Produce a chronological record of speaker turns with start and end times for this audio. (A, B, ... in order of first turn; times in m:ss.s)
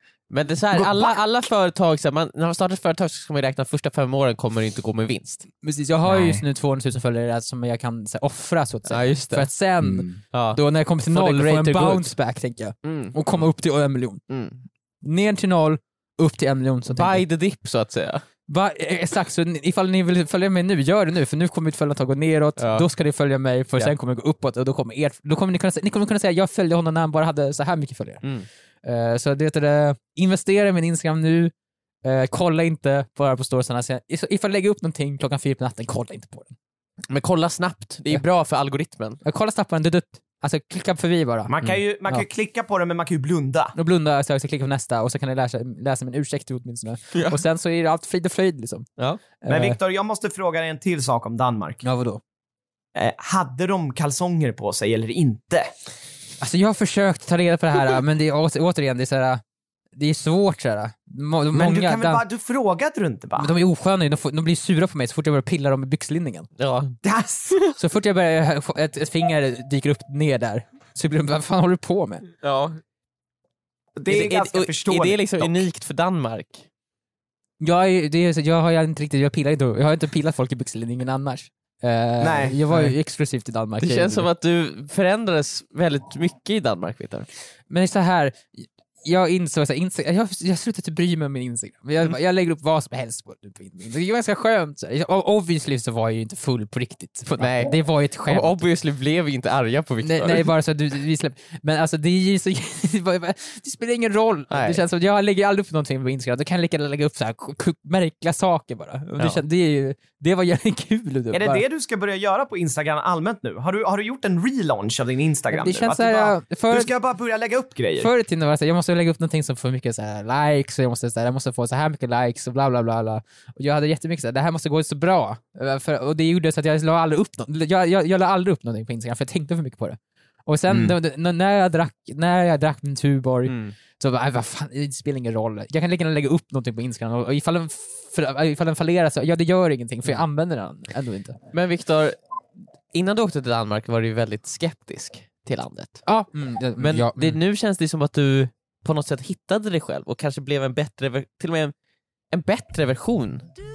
0:00.3-0:05.5 A
0:00.7-0:01.2 B
0:05.6-0:14.2 C
0:06.0-0:06.4 B
0:08.9-0:09.5 A
0:09.8-0:10.2 B
0:10.3-0:12.1 A
0:12.8-0:13.4 A
0:14.3-0:14.6 A
0:15.0-0:17.2 C
0:16.9-0:18.2 A
0:18.5-0:28.2 C
0:22.6-0:22.8 A
0:28.8-0:31.5 C
0:32.0-0:36.5 C
0:37.1-0:39.2 A
0:39.2-0:41.5 C
0:41.5-0:43.7 B
0:43.8-0:48.9 C
0:47.1-0:47.4 A
0:49.4-0:49.8 C
0:49.5-0:51.8 B
0:51.8-0:52.2 C
0:52.9-0:55.7 B
0:56.4-0:59.4 C
1:00.0-1:02.2 C
1:01.5-1:03.5 B
1:03.4-1:06.5 C
1:06.6-1:07.0 A
1:07.0-1:07.6 B
1:07.8-1:12.3 C
1:12.4-1:12.8 A
1:14.0-1:15.6 B
1:14.1-1:16.6 A
1:17.6-1:24.3 C
1:22.2-1:22.6 B
1:23.8-1:27.3 A
1:27.7-1:38.6 C
1:37.4-1:37.7 A
1:38.3-1:40.5 A
1:40.0-1:51.6 C
1:44.5-1:44.8 A
1:51.3-1:58.1 B
1:55.5-1:56.9 C
1:58.0-2:21.4 C
2:13.5-2:13.7 A
2:21.5-2:22.2 A
2:22.9-2:26.0 A
2:26.0-2:27.4 C
2:26.8-2:31.7 A
2:32.3-2:33.4 A